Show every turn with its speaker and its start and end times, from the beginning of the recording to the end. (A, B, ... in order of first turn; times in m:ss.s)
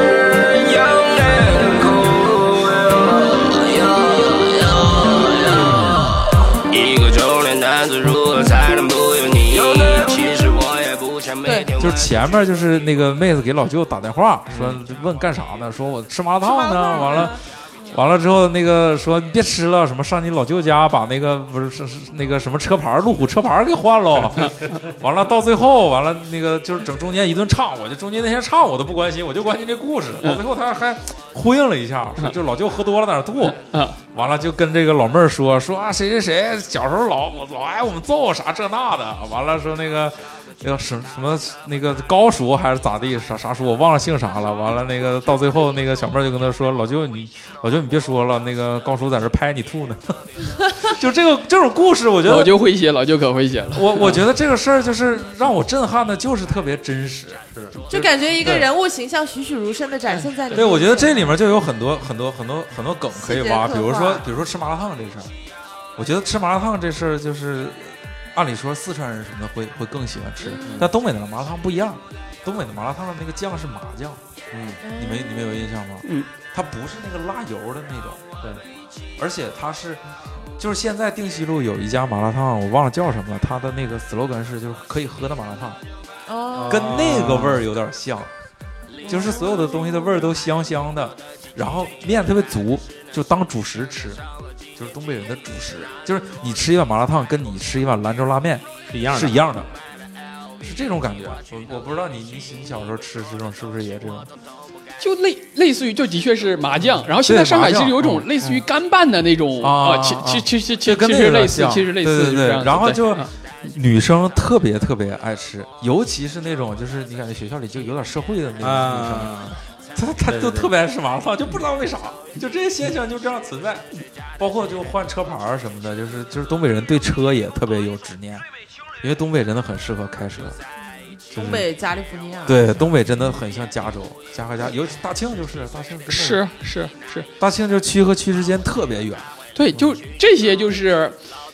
0:00.3-0:12.4 A
0:11.4-0:11.7 B
0:11.8-0:17.4 C
0:14.5-0:14.8 D
0:16.4-0:18.0 B
0:17.9-0:33.6 C
0:33.5-0:34.0 E
0:34.1-0:52.5 C
0:52.2-0:54.2 E
0:53.7-0:58.7 C
0:57.9-1:01.4 B
1:00.5-1:05.3 C
1:03.1-1:04.3 B
1:06.0-1:14.2 C
1:10.4-1:10.8 B
1:10.6-1:10.9 D
1:14.5-1:14.8 D
1:14.8-1:15.7 B
1:15.0-1:18.2 C
1:16.0-1:16.3 E
1:19.2-1:20.0 C
1:20.6-1:25.8 C
1:26.3-1:27.0 B
1:26.5-1:27.6 D
1:26.7-1:28.3 C
1:29.0-1:29.5 B
1:29.0-1:34.2 C
1:34.8-1:39.7 C
1:38.9-1:39.4 D
1:40.6-1:44.3 C
1:45.0-1:53.3 E
1:47.0-1:48.6 C
1:49.6-2:03.8 C
1:58.6-1:59.6 D
2:00.2-2:00.7 D
2:04.4-2:08.4 C
2:09.0-2:10.6 C
2:10.8-2:13.0 B
2:11.3-2:11.6 C
2:12.4-2:16.4 C
2:16.1-2:17.3 E
2:17.4-2:19.9 C
2:19.5-2:21.2 E